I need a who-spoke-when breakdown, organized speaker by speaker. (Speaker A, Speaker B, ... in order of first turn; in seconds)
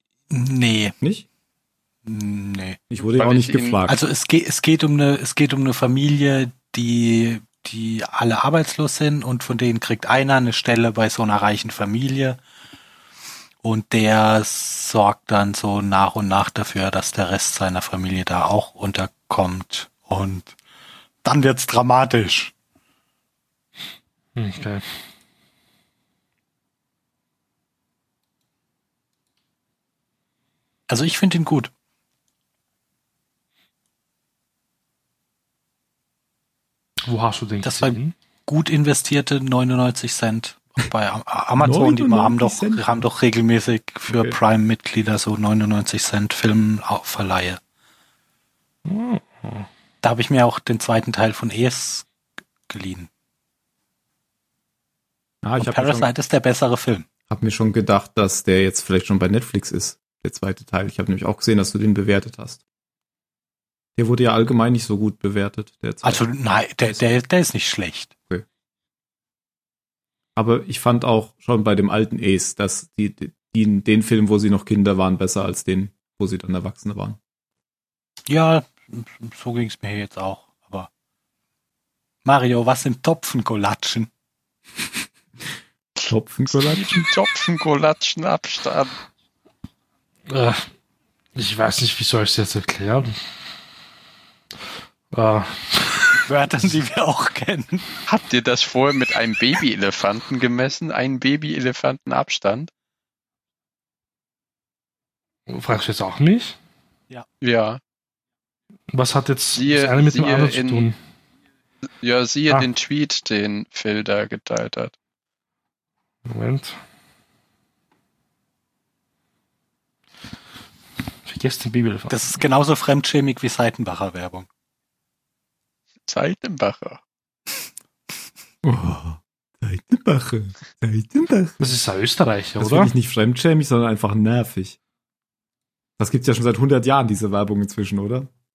Speaker A: 0.3-1.0, 2.0-2.8, 3.9-12.4, 13.6-20.6, 21.2-22.5, 30.9-31.7, 37.6-47.6, 50.0-52.1, 52.7-53.1, 55.6-57.1, 66.0-68.1, 78.3-80.9, 82.2-84.1, 96.2-97.9, 122.1-124.5
Speaker B: 1.0-1.3, 2.9-4.0, 41.6-43.0, 44.1-44.4, 55.4-56.1, 57.3-62.6, 64.0-66.2, 70.4-77.2, 86.1-87.1, 128.6-131.6, 132.6-134.8, 136.0-138.3
Speaker C: 3.2-3.8, 87.0-88.9, 98.1-102.7, 107.4-107.8, 109.6-110.9, 112.0-114.9, 126.1-127.0
Speaker D: 24.4-25.0, 37.1-38.1, 48.9-49.7, 90.3-90.7, 91.4-93.1, 95.1-96.2, 105.5-106.6, 108.9-111.0, 116.3-116.8, 121.2-122.4, 131.6-132.9